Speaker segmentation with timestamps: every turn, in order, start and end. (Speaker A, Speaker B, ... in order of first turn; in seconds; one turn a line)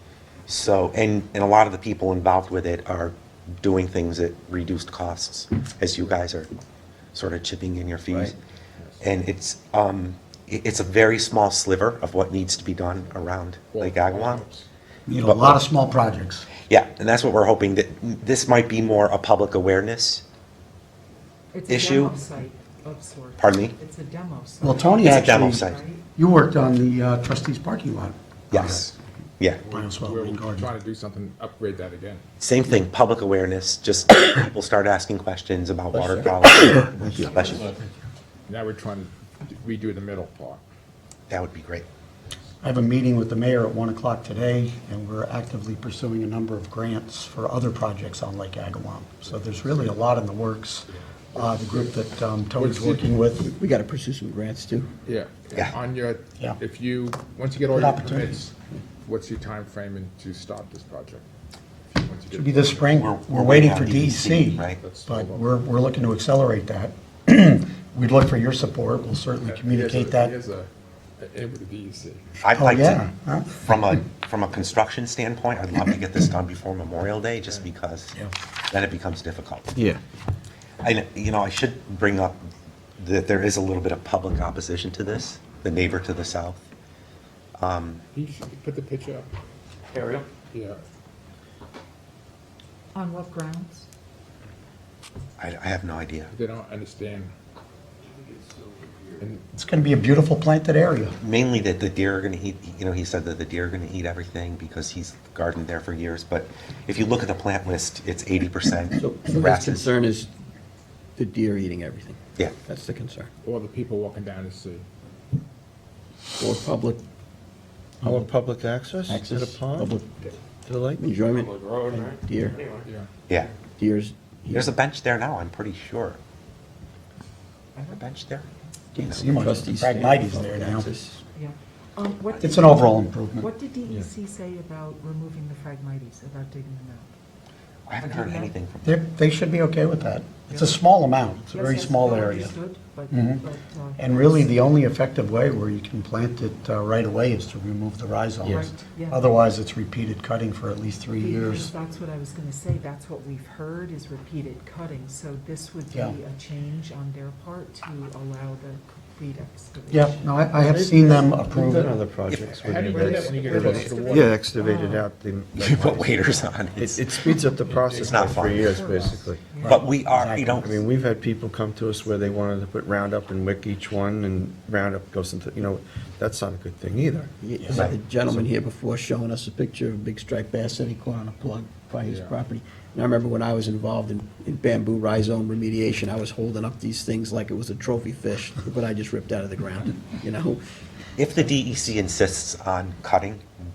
Speaker A: 0.5-6.5
Speaker A: 7.1-8.3
Speaker A: 9.0-14.4
Speaker B: 13.7-14.7
Speaker C: 15.1-16.5
Speaker A: 15.2-15.6
Speaker A: 16.7-20.2
Speaker D: 21.5-26.1
Speaker A: 21.7-22.1
Speaker A: 23.4-23.8
Speaker C: 24.6-28.9
Speaker A: 25.0-25.8
Speaker A: 28.5-29.6
Speaker B: 29.6-32.2
Speaker C: 29.7-30.7
Speaker A: 32.4-37.7
Speaker E: 35.9-37.5
Speaker B: 38.5-40.6
Speaker A: 41.3-41.8
Speaker C: 42.6-53.5
Speaker B: 49.4-49.9
Speaker B: 52.5-53.1
Speaker E: 53.4-54.9
Speaker B: 55.0-61.2
Speaker C: 57.7-58.4
Speaker B: 61.9-63.0
Speaker C: 62.3-70.3
Speaker A: 62.9-64.8
Speaker B: 64.6-65.5
Speaker B: 69.4-72.3
Speaker A: 72.4-78.2
Speaker C: 72.5-73.7
Speaker A: 78.7-79.7
Speaker F: 79.7-80.0
Speaker A: 80.8-82.4
Speaker A: 83.0-86.6
Speaker A: 87.6-88.0
Speaker B: 88.1-89.3
Speaker B: 90.5-90.8
Speaker D: 92.9-93.8
Speaker A: 95.4-96.3
Speaker B: 96.3-97.3
Speaker C: 99.5-101.2
Speaker A: 101.2-109.9
Speaker E: 109.0-110.3
Speaker E: 111.2-113.3
Speaker B: 113.4-114.8
Speaker E: 116.4-117.0
Speaker F: 118.0-119.9
Speaker E: 119.1-120.3
Speaker F: 120.6-121.1
Speaker E: 121.0-122.6
Speaker E: 123.8-124.7
Speaker A: 124.5-126.2
Speaker D: 127.7-128.0
Speaker A: 127.9-128.5
Speaker C: 128.9-130.9
Speaker A: 129.0-129.2
Speaker E: 129.2-131.2
Speaker D: 131.3-137.1
Speaker A: 132.4-132.7
Speaker C: 132.4-133.5
Speaker A: 137.9-139.0
Speaker D: 137.9-138.6
Speaker C: 138.8-142.5
Speaker D: 140.5-140.8
Speaker D: 141.5-144.5
Speaker C: 143.1-143.4
Speaker C: 144.0-151.7
Speaker D: 148.5-149.3
Speaker D: 151.2-160.5
Speaker C: 159.9-161.9
Speaker F: 160.5-169.4
Speaker A: 162.3-163.2
Speaker B: 162.6-164.4
Speaker D: 163.1-165.1
Speaker A: 165.6-167.2
Speaker B: 167.6-169.3
Speaker A: 167.9-168.7
Speaker D: 168.7-169.8
Speaker A: 169.5-170.8
Speaker C: 169.6-170.7
Speaker F: 170.5-177.9
Speaker E: 177.4-190.6
Speaker B: 182.0-182.4
Speaker A: 191.2-193.4